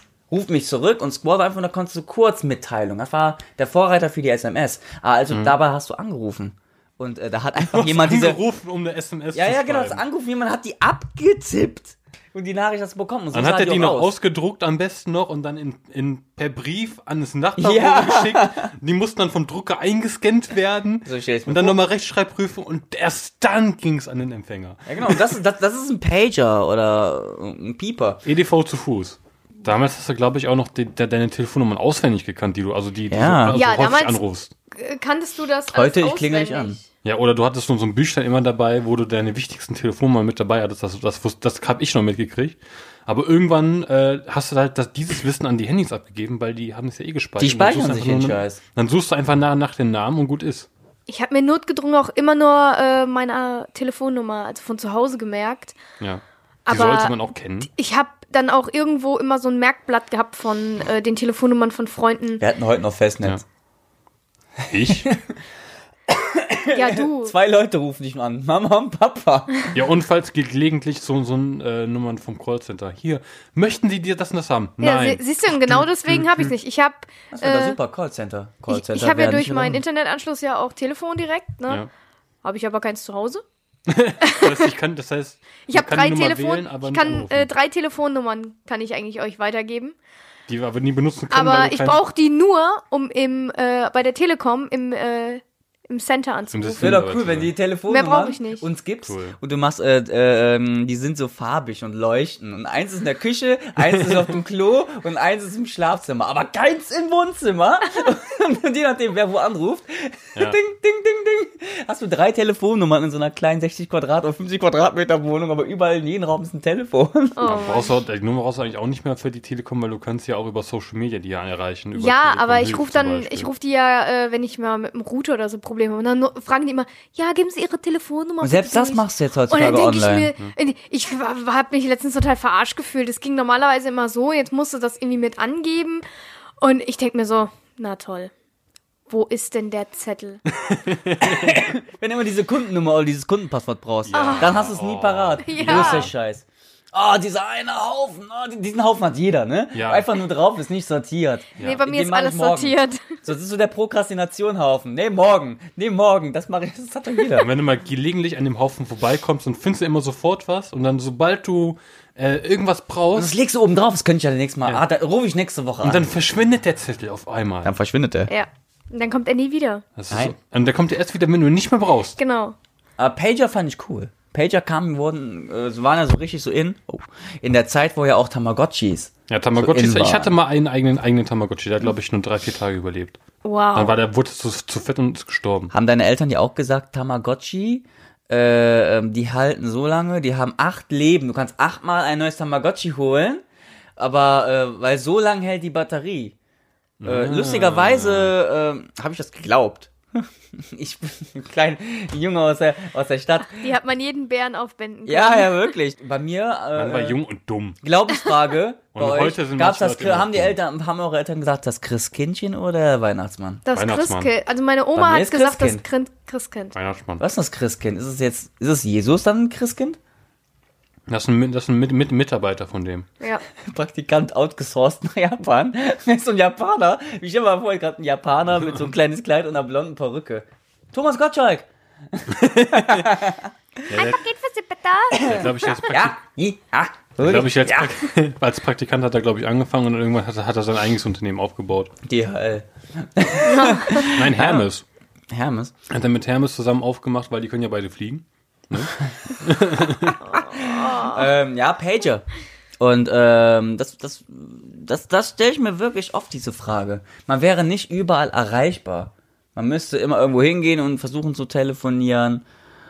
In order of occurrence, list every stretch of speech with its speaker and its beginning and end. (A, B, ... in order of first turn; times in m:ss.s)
0:00.3-0:08.4 A
0:07.6-0:10.0 B
0:09.3-0:14.1 A
0:13.3-0:25.3 B
0:17.6-0:18.7 A
0:21.0-0:21.8 A
0:24.9-0:28.2 A
0:28.2-0:34.5 B
0:33.1-0:33.6 A
0:33.5-0:34.2 C
0:34.7-0:36.8 C
0:35.7-0:36.8 A
0:37.0-0:50.7 B
0:47.4-0:48.6 A
0:51.1-0:55.8 C
0:56.0-0:57.7 B
0:56.7-1:02.4 C
1:02.4-1:03.4 A
1:04.6-1:05.3 A
1:04.7-1:05.1 B
1:06.1-1:09.8 A
1:06.7-1:07.4 C
1:09.7-1:16.5 B
1:14.8-1:17.8 C
1:17.3-1:19.8 A
1:18.7-1:21.8 C
1:22.4-1:23.4 C
1:23.9-1:27.5 B
1:24.2-1:24.7 C
1:25.7-1:30.0 C
1:30.5-1:32.0 B
1:31.3-1:37.0 C
1:36.5-1:37.5 B
1:36.8-1:57.6 A
1:37.9-1:38.7 C
1:39.1-1:39.4 B
1:57.4-1:57.9 C
1:57.4-2:03.5 B
2:02.0-2:16.0 C
2:08.4-2:10.3 A
2:16.6-2:18.3 C
2:19.1-2:20.4 C
2:20.5-2:21.6 B
2:21.2-2:37.5 A
2:24.1-2:26.1 B
2:24.1-2:24.6 C
2:25.4-2:26.1 C
2:29.7-2:30.1 B
2:31.6-2:31.8 B
2:31.6-2:33.2 C
2:37.3-2:43.4 B
2:43.2-2:46.1 A
2:45.8-2:47.7 B
2:47.6-2:48.3 A
2:48.3-2:49.8 C
2:50.0-2:52.2 B
2:50.1-2:50.4 A
2:52.2-2:52.6 C
2:53.0-3:00.3 A
2:59.3-3:03.2 B
3:03.4-3:04.0 C
3:03.7-3:05.7 B
3:05.7-3:13.4 A
3:14.0-3:16.4 A
3:17.0-3:18.4 B
3:17.0-3:23.7 A
3:23.5-3:25.7 C
3:25.1-3:27.2 A
3:26.8-3:27.8 B
3:27.8-3:33.6 A
3:29.0-3:30.6 B
3:33.7-3:36.8 C
3:33.7-3:34.3 B
3:35.0-3:35.8 A
3:36.7-3:37.2 B
3:37.2-3:40.0 A
3:41.1-3:43.1 B
3:43.6-3:53.5 A
3:52.3-3:53.1 B
3:53.9-3:54.2 B
3:53.9-3:55.8 C
3:55.1-3:58.1 A
3:55.2-3:56.2 B
3:57.2-4:01.9 B
4:02.0-4:04.7 A
4:03.5-4:04.0 C
4:03.9-4:04.8 B
4:05.3-4:05.7 A
4:05.9-4:10.2 B
4:10.0-4:12.2 A
4:10.2-4:11.3 C
4:12.8-4:22.4 A